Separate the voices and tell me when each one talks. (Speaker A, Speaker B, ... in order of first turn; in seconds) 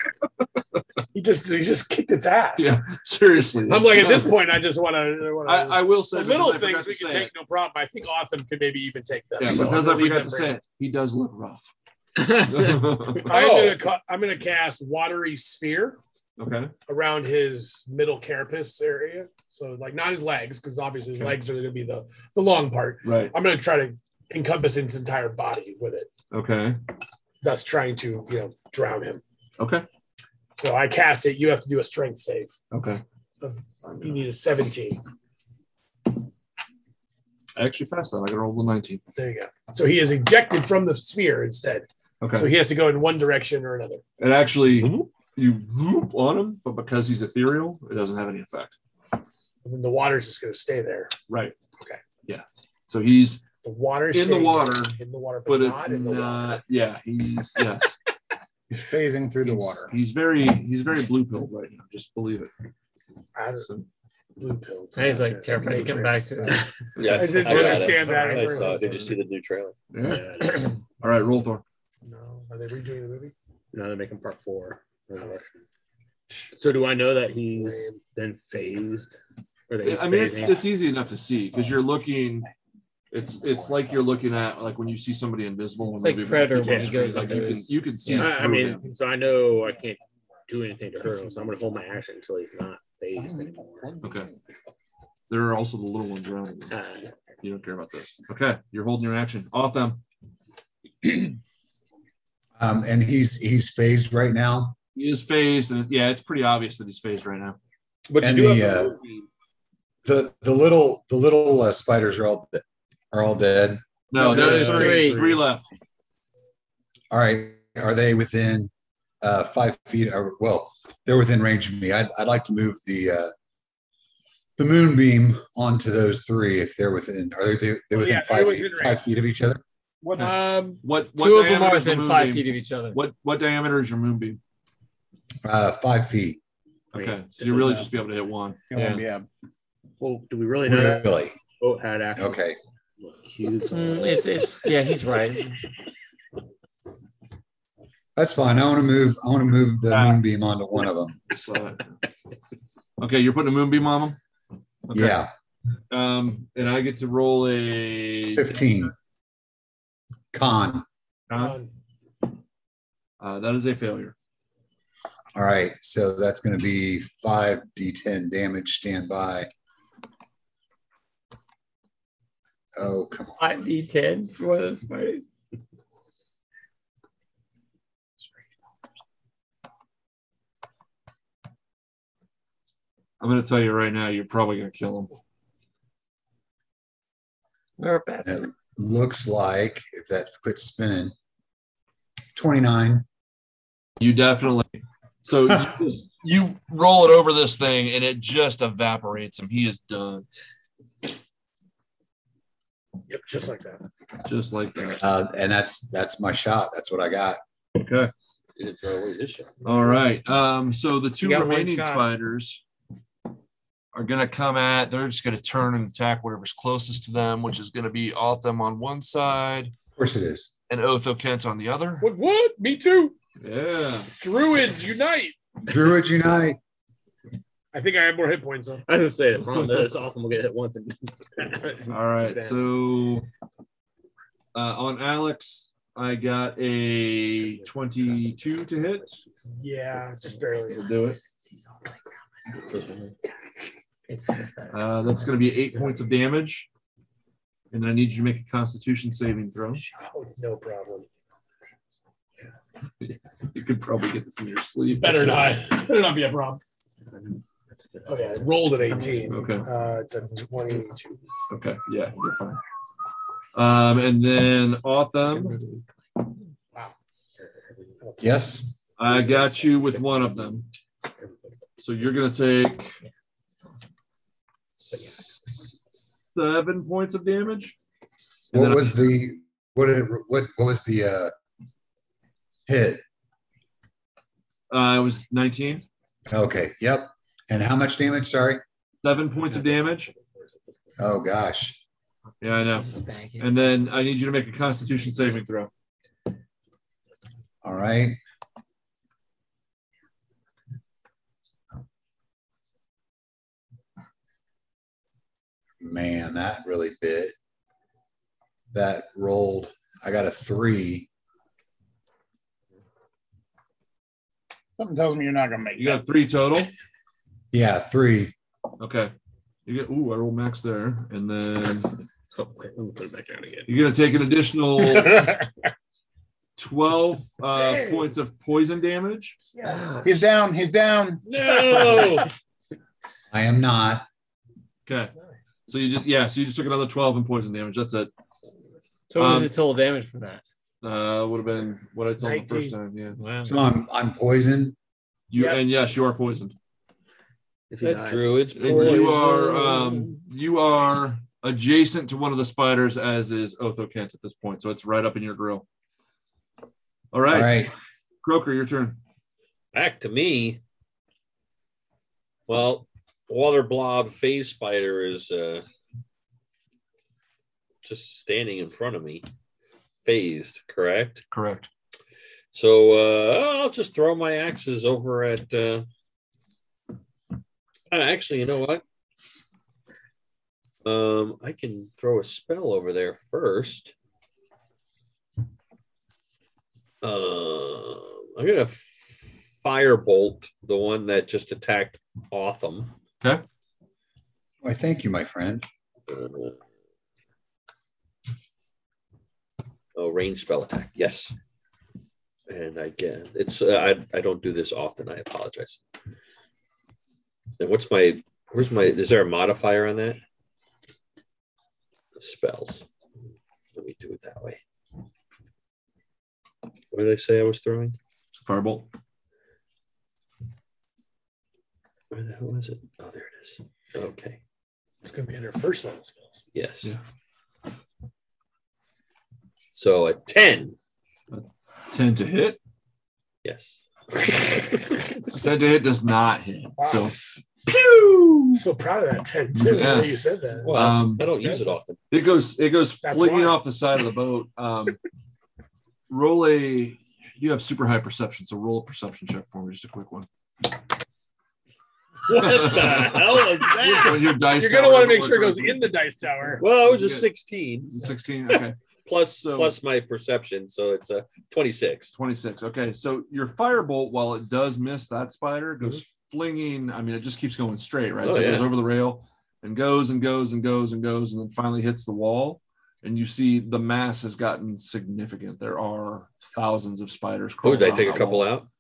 Speaker A: 1.1-2.8, 3.6-10.6, 13.2-16.0, 16.9-26.1, 27.4-29.2, 30.6-32.6, 33.4-35.0, 39.2-44.0, 49.6-51.1, 51.8-52.0, 53.6-56.6, 63.4-63.7, 64.4-69.1, 72.0-73.3, 77.5-77.9, 127.9-129.1, 130.2-130.8, 161.3-161.7, 203.1-203.9, 222.0-223.2, 224.1-225.4, 227.7-228.8, 239.6-240.9, 249.9-251.1, 254.9-256.6, 258.1-261.2, 268.0-268.6, 327.5-328.2, 329.5-329.9, 331.4-332.2, 342.2-342.8, 345.3-345.7, 425.0-426.4, 436.8-437.1, 438.5-441.8, 443.0-443.6, 454.4-456.7
Speaker B: 2.6-4.5, 5.5-7.3, 9.4-11.7, 12.3-13.8, 16.4-16.7, 23.0-23.3, 26.3-26.8, 29.6-29.9, 32.7-33.0, 33.8-34.2, 37.6-39.0, 42.2-42.5, 44.2-48.8, 51.3-51.6, 52.2-53.5, 54.1-58.0, 59.4-62.5, 63.6-63.9, 67.2-68.9, 69.9-70.3, 71.0-71.6, 79.8-82.5, 83.1-88.8, 94.0-94.3, 95.3-96.8, 97.4-100.0, 105.0-107.6, 114.1-115.7, 130.2-134.4, 136.9-138.6, 149.9-150.2, 151.3-152.0, 153.0-154.2, 154.9-155.3, 155.9-158.6, 161.3-161.6, 163.2-164.2, 183.2-185.2, 194.0-200.3, 204.2-205.0, 207.8-208.1, 209.6-212.6, 213.9-219.7, 220.7-222.1, 223.4-224.1, 231.9-233.3, 234.5-239.2, 240.7-241.2, 244.7-246.7, 247.7-249.8, 253.0-255.6, 259.2-259.7, 261.5-262.6, 263.5-265.6, 269.0-270.7, 271.8-273.0, 276.4-277.8, 278.5-279.2, 284.7-285.8, 289.0-290.1, 292.4-295.7, 315.8-316.7, 318.8-319.1, 319.7-322.0, 323.7-325.3, 326.6-329.4, 334.9-335.1, 335.7-338.1, 339.2-339.5, 340.8-343.2, 345.3-346.6, 348.6-355.6, 357.1-359.0, 371.3-371.7, 418.4-418.9, 431.3-432.6, 435.3-437.2, 439.6-441.3, 442.1-445.0, 446.1-450.3, 452.3-455.9, 456.7-457.3, 457.9-458.8, 459.3-459.8, 462.1-478.5
Speaker C: 44.8-45.1, 67.0-69.8, 108.1-109.3, 208.6-209.6, 331.5-331.9, 347.8-349.5, 359.7-360.6, 362.5-365.7, 367.8-369.3, 370.1-371.2, 372.5-375.9, 377.9-378.8, 380.8-383.9, 387.0-392.9, 396.1-396.6, 399.9-401.4, 402.5-405.8, 407.6-410.2, 412.2-412.9, 413.7-414.6, 416.9-418.0, 422.1-424.4, 426.5-426.9, 429.7-430.8, 433.4-433.8, 440.6-442.0, 456.6-457.9, 459.1-462.1, 468.2-468.7, 477.6-478.7
Speaker D: 58.7-59.9, 93.1-94.0, 130.0-130.4, 137.4-137.9, 138.7-139.3, 314.8-316.0, 330.0-331.2
Speaker E: 65.0-66.7, 86.0-88.4, 114.2-115.3, 131.2-133.0, 138.7-139.0, 143.7-145.6, 173.4-175.3, 187.8-188.5, 211.2-212.1, 240.7-241.9, 244.1-245.3, 265.4-265.8, 292.8-293.8, 329.6-330.1, 339.1-340.4, 343.2-343.6
Speaker F: 70.0-70.7, 73.7-75.6, 76.5-79.2, 79.7-80.7, 86.6-87.6, 88.1-94.0, 96.7-97.1, 114.5-115.2, 140.0-142.5, 143.0-144.5, 228.8-232.7, 237.4-239.2, 242.6-243.2, 257.1-259.3, 267.4-268.0, 269.0-270.6, 271.2-271.6, 274.9-275.2, 289.4-290.9, 322.3-323.7, 331.8-332.1, 347.7-350.0, 452.2-454.4
Speaker G: 102.6-104.8, 108.2-109.0, 110.0-113.8, 117.1-123.3, 124.6-129.6, 135.4-136.4, 140.7-141.4, 142.2-142.6, 148.2-151.2, 154.9-155.3, 158.4-158.9, 160.3-160.9, 165.3-169.5, 172.8-173.4, 188.2-191.1, 192.3-193.1, 205.0-207.4, 220.0-220.5, 225.7-226.6, 268.2-268.8, 278.5-281.3, 282.7-283.0, 286.3-288.6, 291.0-291.8, 297.6-298.2, 305.8-307.3, 308.7-311.1, 317.5-318.4, 333.3-334.1, 343.4-344.8, 357.3-357.7, 394.6-395.7